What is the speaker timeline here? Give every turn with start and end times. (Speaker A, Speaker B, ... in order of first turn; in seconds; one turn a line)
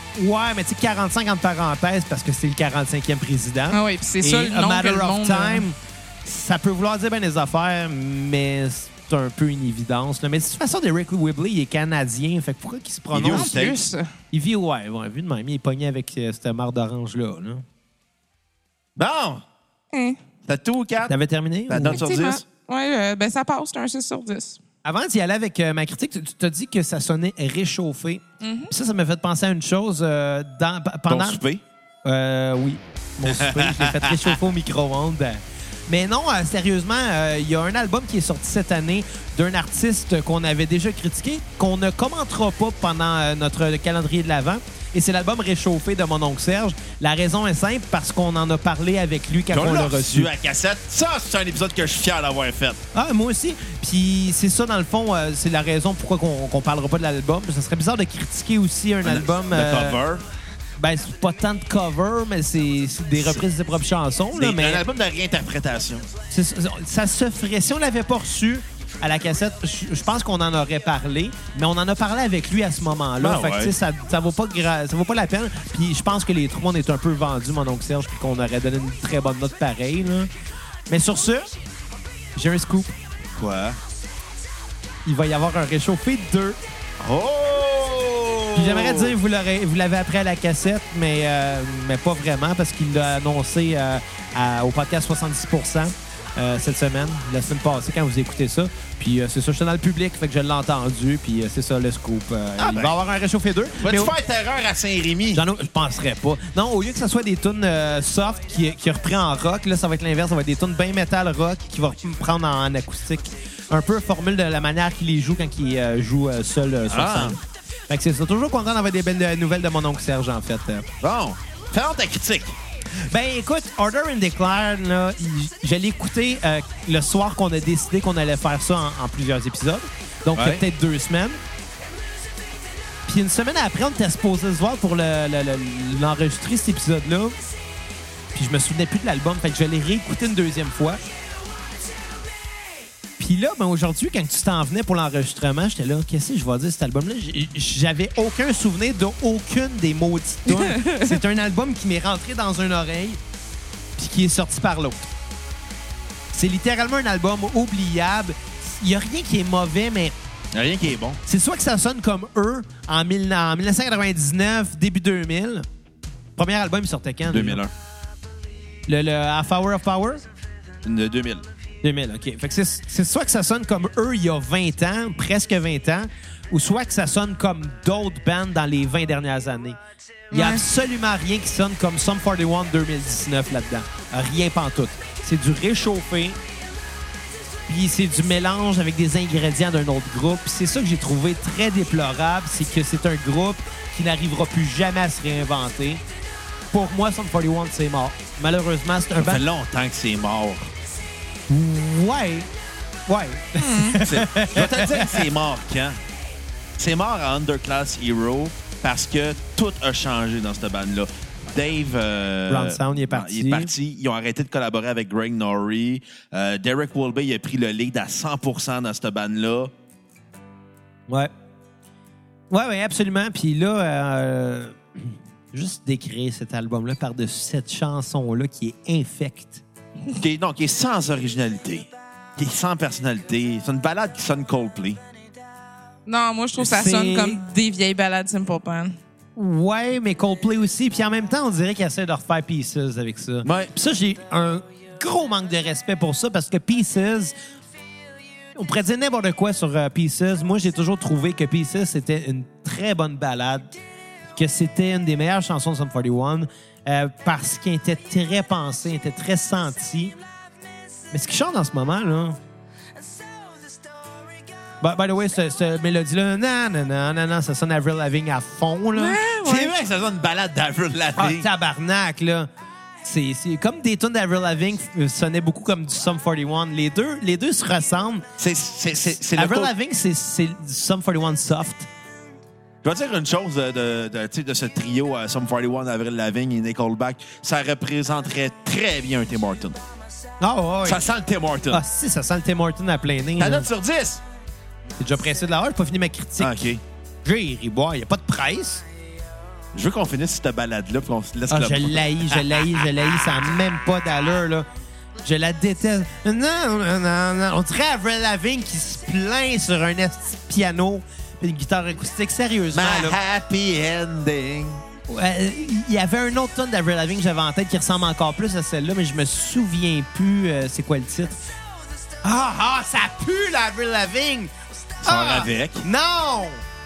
Speaker A: 0.1-13.6
Speaker B: 3.7-5.6
Speaker C: 13.1-13.8
Speaker B: 13.3-14.1
Speaker A: 14.3-17.6
Speaker C: 19.0-19.4
Speaker B: 19.9-20.2
Speaker C: 20.5-21.1
Speaker A: 21.0-22.0
Speaker C: 21.7-22.4
Speaker B: 21.9-24.6
Speaker A: 24.8-31.4
Speaker B: 28.4-28.7
Speaker C: 31.1-31.6
Speaker A: 32.0-50.3
Speaker C: 33.2-34.4
Speaker C: 49.5-52.8
Speaker A: 52.9-60.0
Speaker C: 59.0-60.2
Speaker A: 60.8-64.8
Speaker C: 63.2-63.4
Speaker C: 64.3-66.1
Speaker A: 66.3-80.3
Speaker C: 73.2-73.7
Speaker A: 80.9-81.5
Speaker A: 82.3-82.9
Speaker C: 83.3-83.8
Speaker A: 85.0-86.6
Speaker C: 87.0-89.2
Speaker A: 88.5-104.1
Speaker C: 102.6-103.0
Speaker C: 103.8-105.4
Speaker A: 105.3-120.8
Speaker C: 116.9-117.4
Speaker C: 121.0-122.5
Speaker A: 123.0-131.4
Speaker C: 130.3-130.6
Speaker A: 133.1-137.3
Speaker A: 138.3-141.0
Speaker A: 143.2-153.2
Speaker B: 150.5-151.2
Speaker A: 154.0-155.1
Speaker A: 156.3-160.1
Speaker C: 160.5-161.2
Speaker A: 161.2-165.7
Speaker A: 166.4-167.6
Speaker C: 167.3-167.7
Speaker A: 168.9-170.3
Speaker C: 170.8-171.4
Speaker A: 171.8-179.8
Speaker A: 180.3-186.4
Speaker B: 180.3-180.6
Speaker A: 187.7-196.0
Speaker A: 196.7-199.4
Speaker C: 199.2-200.7
Speaker A: 201.5-202.5
Speaker A: 203.1-205.3
Speaker B: 203.6-204.0
Speaker C: 204.0-206.0
Speaker C: 206.8-219.7
Speaker A: 212.5-213.7
Speaker A: 222.5-229.6
Speaker C: 230.1-235.0
Speaker B: 236.1-238.9
Speaker A: 236.6-237.4
Speaker A: 239.3-247.3
Speaker C: 243.4-243.7
Speaker A: 248.5-253.7
Speaker A: 254.3-260.1
Speaker A: 261.1-262.4
Speaker A: 264.8-269.2
Speaker B: 268.9-269.7
Speaker C: 269.4-271.5
Speaker A: 271.1-272.5
Speaker A: 273.0-278.2
Speaker C: 278.4-279.7
Speaker A: 279.3-281.9
Speaker C: 282.8-289.8
Speaker A: 290.4-291.0
Speaker C: 290.8-291.8
Speaker A: 291.7-293.7
Speaker C: 293.4-294.2
Speaker A: 295.0-296.6
Speaker C: 296.4-296.8
Speaker A: 297.2-298.8
Speaker C: 299.7-302.8
Speaker A: 301.5-304.7
Speaker A: 305.2-313.2
Speaker C: 312.7-314.8
Speaker A: 315.1-321.4
Speaker A: 322.2-326.6
Speaker C: 325.0-325.8